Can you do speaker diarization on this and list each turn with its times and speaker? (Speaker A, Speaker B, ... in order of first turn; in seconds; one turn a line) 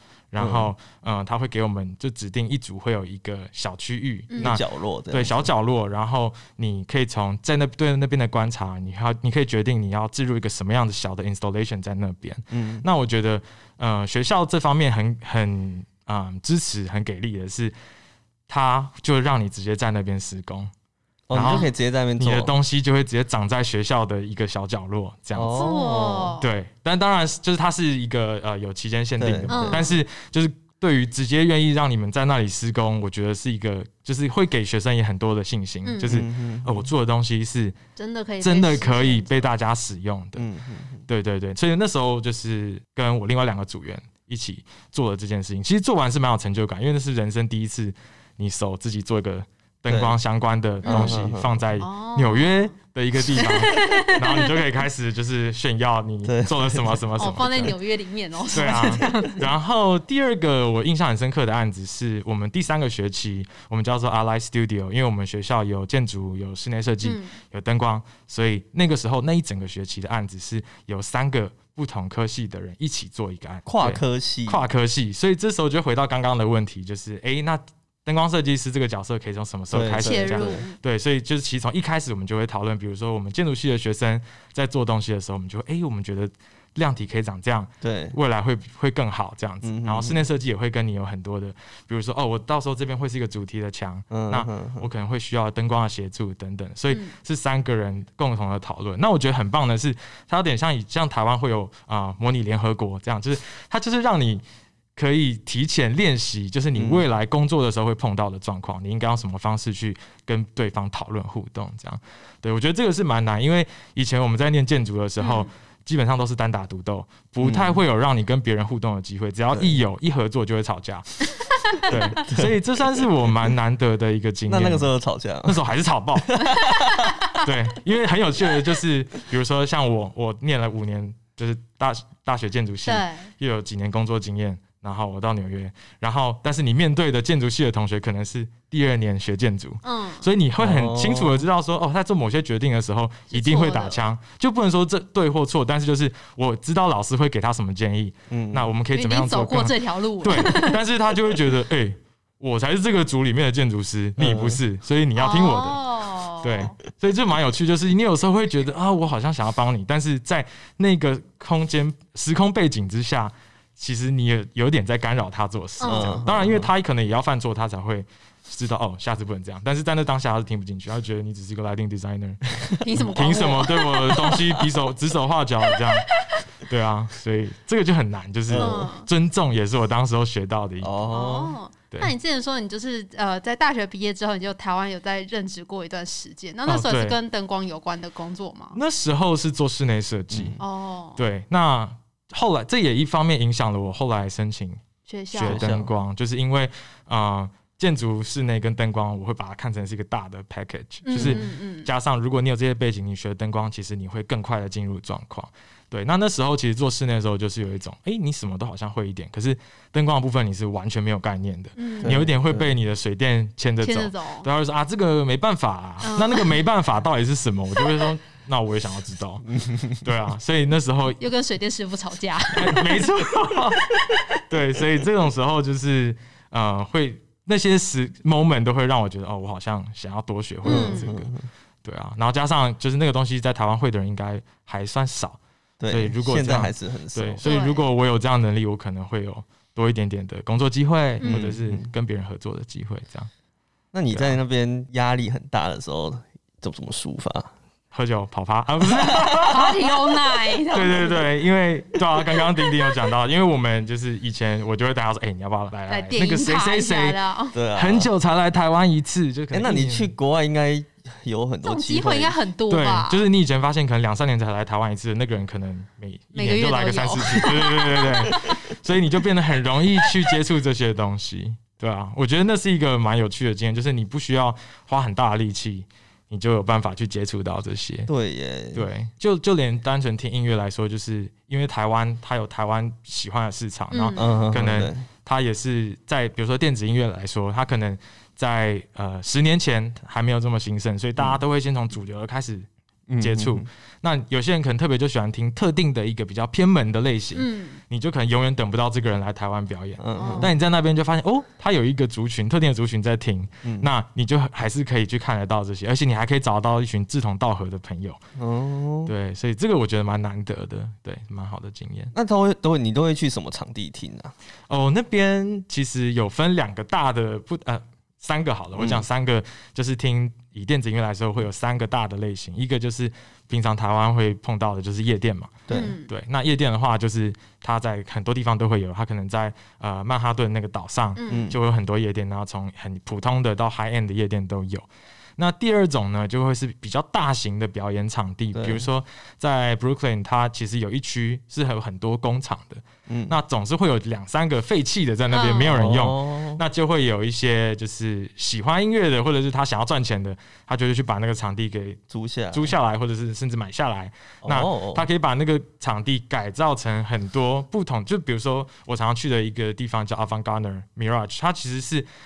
Speaker A: 0.3-17.7
Speaker B: 0.4-0.7
Speaker C: 4.3-4.6
Speaker B: 4.4-5.5
Speaker B: 12.5-12.8
Speaker A: 18.5-20.7
Speaker B: 21.3-22.5
Speaker A: 21.3-25.6
Speaker B: 25.3-26.4
Speaker C: 25.5-26.4
Speaker A: 26.4-37.8
Speaker B: 29.2-29.9
Speaker C: 29.5-30.0
Speaker C: 35.8-36.1
Speaker B: 36.0-36.9
Speaker C: 38.0-39.5
Speaker A: 38.4-40.4
Speaker B: 40.4-41.0
Speaker A: 41.1-57.7
Speaker B: 49.9-50.2
Speaker C: 50.8-51.2
Speaker B: 50.8-51.6
Speaker C: 51.8-52.7
Speaker C: 53.4-54.5
Speaker B: 56.2-57.7
Speaker C: 57.2-59.5
Speaker A: 58.5-104.4
Speaker C: 67.0-67.3
Speaker B: 73.7-74.6
Speaker B: 79.7-80.7
Speaker C: 80.0-80.7
Speaker B: 87.8-88.2
Speaker B: 89.6-90.2
Speaker B: 94.1-94.9
Speaker A: 105.0-124.9
Speaker B: 106.7-107.0
Speaker C: 115.2-115.5
Speaker B: 117.4-117.8
Speaker B: 119.5-119.8
Speaker B: 122.2-122.5
Speaker B: 124.5-125.6
Speaker A: 125.4-126.4
Speaker B: 126.2-127.2
Speaker C: 126.7-127.4
Speaker A: 127.4-155.8
Speaker C: 132.8-133.3
Speaker C: 139.8-140.3
Speaker B: 140.6-141.5
Speaker C: 143.3-144.0
Speaker B: 148.3-148.7
Speaker C: 148.9-150.8
Speaker B: 154.2-154.6
Speaker C: 155.2-156.7
Speaker A: 156.4-180.9
Speaker C: 165.8-166.2
Speaker B: 165.8-166.7
Speaker B: 172.7-173.6
Speaker C: 172.8-174.5
Speaker C: 175.7-176.4
Speaker B: 178.5-178.9
Speaker C: 178.6-179.1
Speaker B: 180.8-181.6
Speaker C: 181.1-188.8
Speaker A: 186.7-187.2
Speaker A: 188.7-190.6
Speaker B: 190.3-190.6
Speaker C: 190.6-191.2
Speaker A: 191.2-194.8
Speaker C: 195.1-195.6
Speaker A: 195.3-221.2
Speaker B: 195.4-195.9
Speaker C: 201.1-201.9
Speaker B: 201.2-201.4
Speaker C: 211.8-212.2
Speaker B: 212.0-212.7
Speaker C: 213.8-214.5
Speaker C: 216.0-216.6
Speaker B: 219.5-220.0
Speaker C: 221.2-223.1
Speaker A: 222.5-223.9
Speaker A: 224.4-231.3
Speaker C: 230.6-231.1
Speaker B: 230.6-231.5
Speaker A: 231.8-235.4
Speaker B: 235.8-237.4
Speaker A: 235.9-243.3
Speaker C: 237.4-237.8
Speaker B: 241.2-241.9
Speaker B: 243.9-247.5
Speaker A: 244.1-244.4
Speaker A: 247.9-249.8
Speaker B: 248.9-249.6
Speaker C: 249.4-251.2
Speaker A: 250.7-257.2
Speaker C: 255.9-257.6
Speaker B: 257.5-258.1
Speaker A: 257.7-260.1
Speaker B: 259.5-262.4
Speaker C: 261.6-263.2
Speaker A: 262.7-278.1
Speaker C: 266.3-268.6
Speaker B: 278.1-278.9
Speaker A: 278.7-292.7
Speaker C: 283.9-284.3
Speaker B: 284.1-285.1
Speaker B: 293.1-293.7
Speaker A: 293.2-308.2
Speaker C: 297.4-297.8
Speaker B: 300.0-300.5
Speaker C: 300.1-300.5
Speaker B: 303.6-303.9
Speaker B: 308.4-309.1
Speaker A: 309.1-312.1
Speaker B: 312.1-314.3
Speaker A: 314.7-352.0
Speaker B: 318.8-319.0
Speaker B: 325.7-325.9
Speaker C: 325.7-326.1
Speaker C: 331.2-331.5
Speaker B: 331.3-331.6
Speaker B: 338.5-338.9
Speaker B: 343.1-343.4
Speaker C: 345.3-345.8
Speaker B: 345.6-346.6
Speaker B: 352.1-352.7
Speaker A: 352.5-362.1
Speaker B: 354.4-355.1